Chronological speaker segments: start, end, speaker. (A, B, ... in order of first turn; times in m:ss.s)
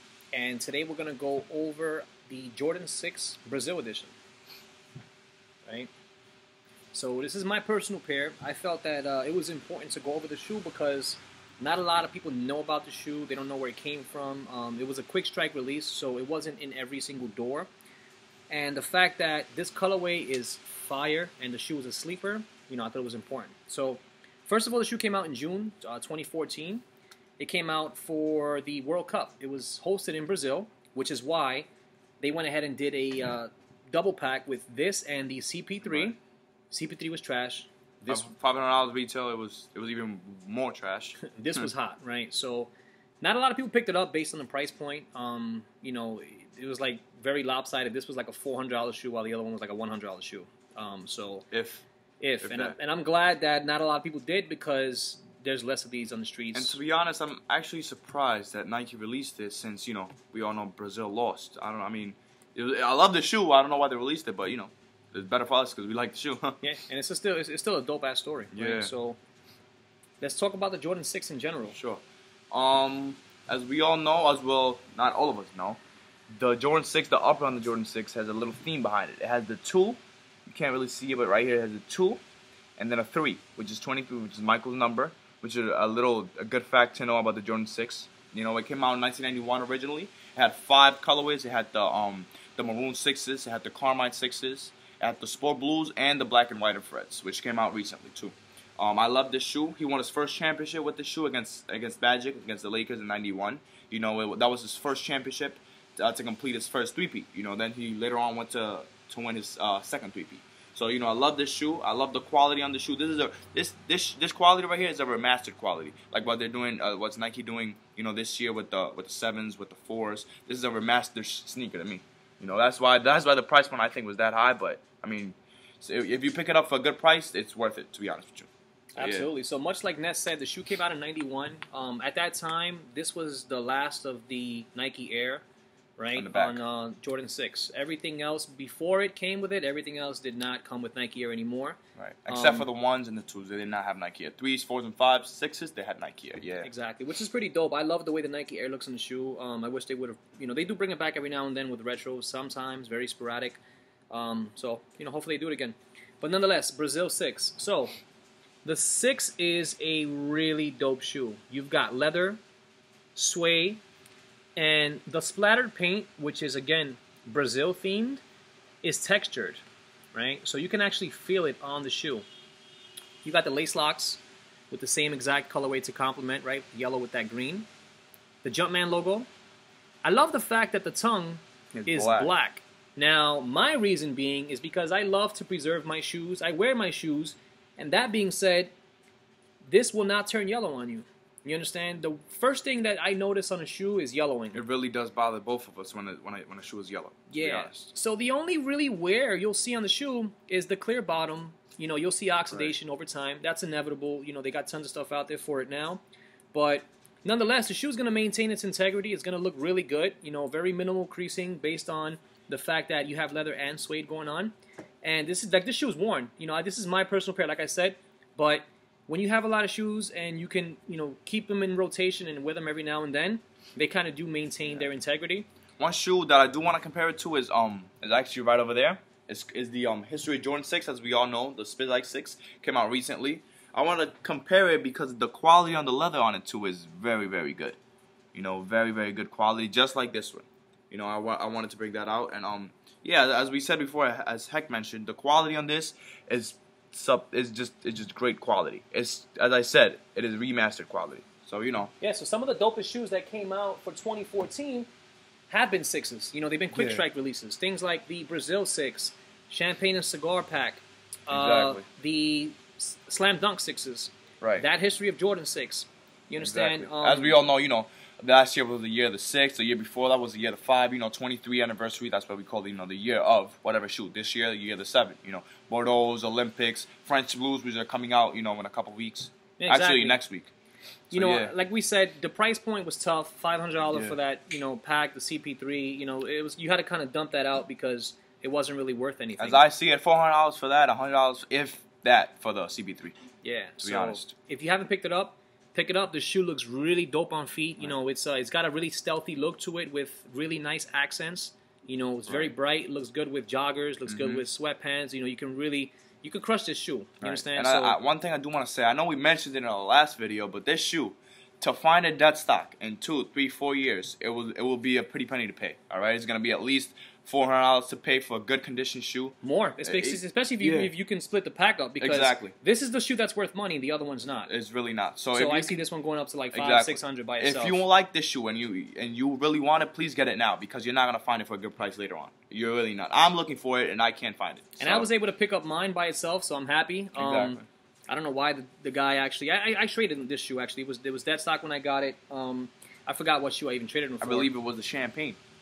0:00.3-0:04.1 A
0:06.9-0:17.7 A
0:18.5-0:26.8 A
0:27.4-0:31.7 A
0:32.2-0:36.2 A
0:35.8-0:36.1 B
0:36.7-0:38.3 A
0:38.0-0:41.7 B
0:41.2-0:51.4 A
0:51.5-0:51.8 B
0:52.2-0:56.8 A
0:52.4-0:52.8 B
0:56.5-1:06.6 B
1:06.6-1:09.2 A
1:08.5-1:08.9 B
1:10.2-1:11.8 A
1:11.7-1:15.8 B
1:16.3-1:22.2 B
1:22.8-2:09.3 B
2:09.0-2:15.4 A
2:16.0-2:21.8 A
2:16.1-2:16.6 B
2:22.0-2:26.7 B
2:22.3-2:22.7 A
2:26.6-2:33.6 A
2:34.1-2:37.9 A
2:38.6-2:42.4 A
2:43.1-2:43.8 A
2:44.6-2:48.2 A
2:48.8-2:49.6 A
2:50.1-2:52.2 A
2:53.2-2:57.7 A
2:58.4-2:59.3 A
3:00.0-3:08.7 A
3:01.7-3:02.3 B
3:09.6-3:14.6 A
3:14.5-3:17.9 B
3:17.3-3:26.0 A
3:26.5-3:45.4 A
3:45.8-3:57.8 B
3:58.3-4:11.9 B
4:12.0-4:14.9 A
4:15.5-4:27.4 A
4:16.7-4:17.0 B
4:21.3-4:21.8 B
4:24.4-4:24.7 B
4:26.4-4:40.5 B
4:39.6-4:40.2 A
4:41.1-4:41.5 B
4:41.1-4:49.7 A
4:43.9-4:44.2 B
4:49.4-4:53.1 B
4:53.4-5:08.0 A
4:53.8-4:54.3 B
5:04.1-5:04.4 B
5:07.2-5:20.9 B
5:19.4-5:24.5 A
5:22.0-5:22.5 B
5:24.5-5:25.8 B
5:25.3-5:27.8 A
5:26.5-5:35.1 B
5:34.8-5:44.5 A
5:37.2-5:37.6 B
5:44.2-5:45.4 B